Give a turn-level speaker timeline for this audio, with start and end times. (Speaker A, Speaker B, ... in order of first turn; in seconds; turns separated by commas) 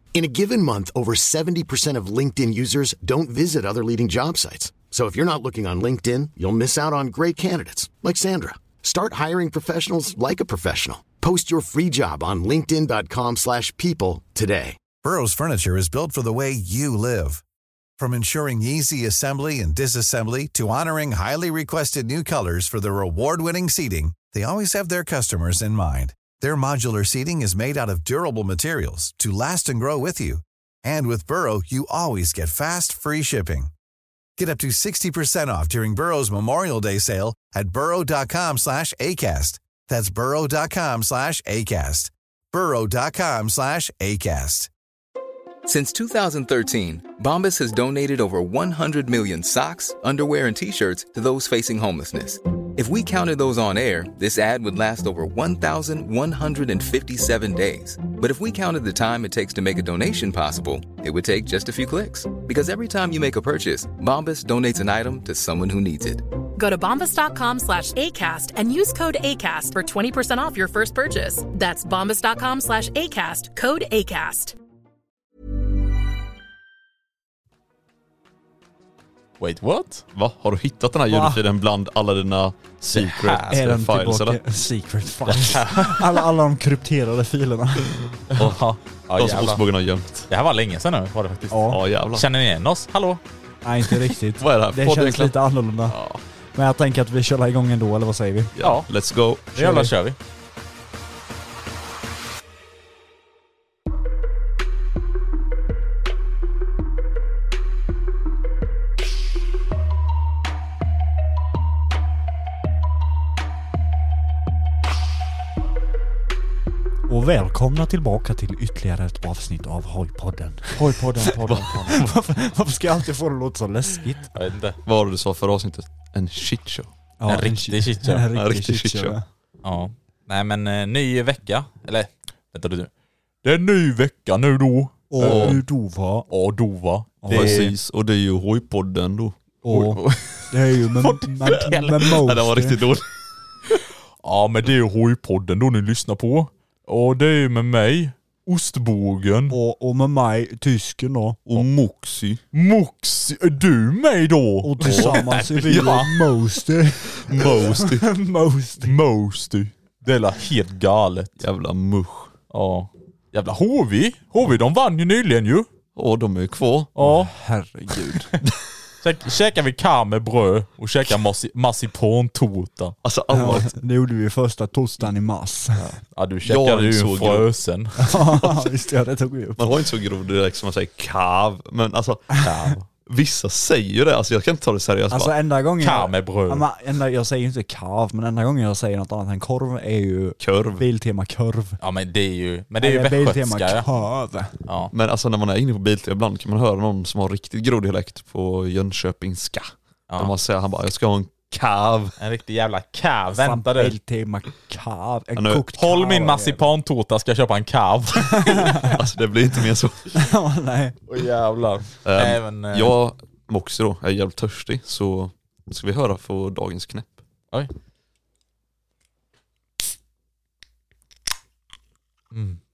Speaker A: 0.1-14.8, Speaker B: 15.0-17.4, Speaker B: 18.0-33.7, Speaker B: 34.4-44.7, Speaker C: 45.6-66.2, Speaker D: 66.6-74.6, Speaker E: 79.4-80.0, Speaker F: 80.2-84.4, Speaker G: 81.1-81.4, Speaker E: 82.9-83.6, Speaker G: 83.5-88.0, Speaker E: 85.5-86.1, Speaker F: 88.3-88.6, Speaker E: 88.3-89.7, Speaker F: 89.2-90.3, Speaker E: 90.3-93.2, Speaker G: 91.5-91.8, Speaker F: 91.7-92.2, Speaker G: 93.6-96.0, Speaker F: 94.4-95.4, Speaker E: 95.9-96.2, Speaker G: 96.5-98.5, Speaker F: 98.6-99.5, Speaker E: 98.6-98.9, Speaker E: 99.5-100.2, Speaker G: 99.5-99.9, Speaker G: 117.1-121.3, Speaker E: 120.8-122.1, Speaker F: 121.3-121.8, Speaker G: 121.9-124.3, Speaker E: 124.3-124.8, Speaker F: 124.8-126.9, Speaker G: 127.2-129.2, Speaker E: 127.3-128.3, Speaker F: 128.3-129.2, Speaker E: 129.6-132.9, Speaker E: 133.4-135.6, Speaker G: 135.1-136.3, Speaker F: 135.2-135.6, Speaker E: 136.3-137.7, Speaker G: 137.2-137.7, Speaker F: 137.3-139.4, Speaker G: 139.6-142.8, Speaker E: 139.7-142.1, Speaker F: 142.1-143.1, Speaker E: 144.2-149.6, Speaker G: 149.5-151.6, Speaker F: 151.5-152.4, Speaker E: 152.5-156.1, Speaker G: 154.6-158.9, Speaker F: 154.8-156.1, Speaker F: 157.3-158.1, Speaker E: 158.8-161.3, Speaker F: 161.4-162.3, Speaker E: 162.5-165.7, Speaker F: 165.9-166.9, Speaker E: 167.0-167.3, Speaker G: 167.0-168.3, Speaker E: 169.0-173.0, Speaker F: 173.0-173.7, Speaker G: 173.3-176.0, Speaker E: 176.0-178.2, Speaker F: 176.4-177.5, Speaker G: 178.0-179.6, Speaker F: 179.6-182.3, Speaker E: 182.4-182.8, Speaker F: 183.1-185.3, Speaker G: 185.1-191.8, Speaker E: 185.8-186.7, Speaker F: 190.4-190.9, Speaker E: 191.8-193.9, Speaker G: 192.8-194.6, Speaker E: 194.7-194.9, Speaker F: 194.9-202.2, Speaker E: 202.2-204.0, Speaker G: 203.3-206.7, Speaker F: 205.4-205.6, Speaker E: 205.7-208.8, Speaker G: 208.4-208.9, Speaker F: 208.8-210.2, Speaker G: 210.2-211.0, Speaker E: 211.1-212.9, Speaker F: 212.1-217.2, Speaker E: 222.3-222.6